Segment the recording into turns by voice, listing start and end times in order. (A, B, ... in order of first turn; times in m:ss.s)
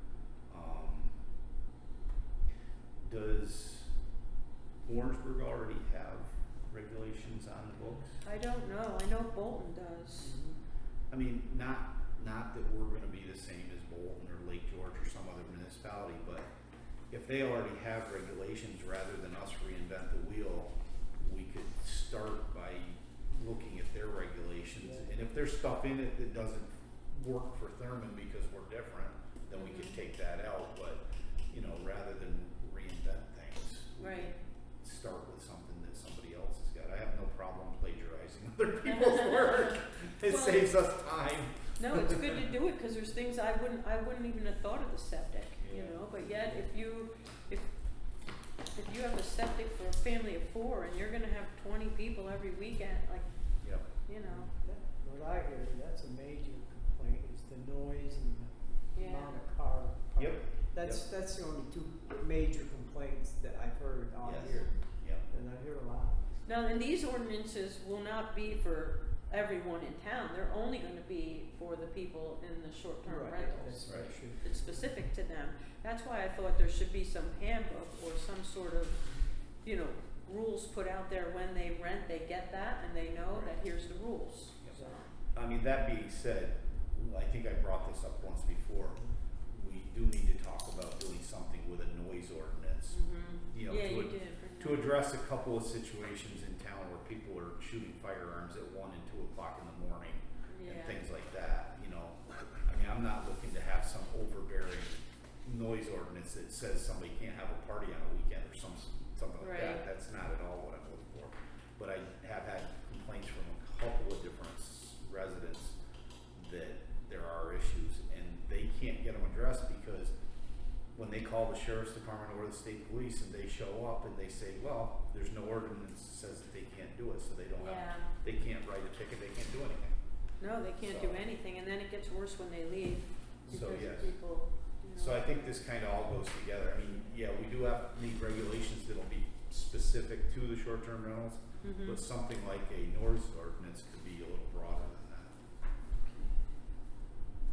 0:00.5-0:01.2 A
0:03.0-0:03.9 A
0:04.8-0:08.2 A
0:08.2-0:10.4 B
0:10.2-0:10.6 C
0:11.1-0:16.5 A
0:17.1-0:42.3 A
0:24.8-0:25.1 C
0:29.5-0:30.0 B
0:34.0-0:34.3 B
0:39.1-0:39.5 B
0:40.2-0:40.7 B
0:41.8-0:47.7 B
0:45.6-0:46.0 A
0:46.3-0:46.6 C
0:48.7-0:53.3 B
0:53.8-0:54.5 B
0:54.2-1:06.2 C
0:58.9-0:59.3 B
1:00.2-1:01.0 A
1:04.2-1:05.2 A
1:04.4-1:04.7 B
1:06.4-1:19.0 B
1:13.0-1:14.9 C
1:13.8-1:14.1 A
1:19.0-1:19.3 C
1:19.6-1:25.1 B
1:25.3-1:29.0 A
1:29.5-1:33.0 A
1:32.9-1:35.0 B
1:33.5-1:55.8 A
1:40.5-1:41.0 B
1:49.4-1:49.8 B
1:56.3-2:00.1 A
2:00.9-2:09.9 A
2:07.6-2:08.1 B
2:10.4-2:15.5 B
2:10.8-2:11.2 A
2:13.5-2:14.1 A
2:14.9-2:25.3 A
2:21.6-2:22.0 B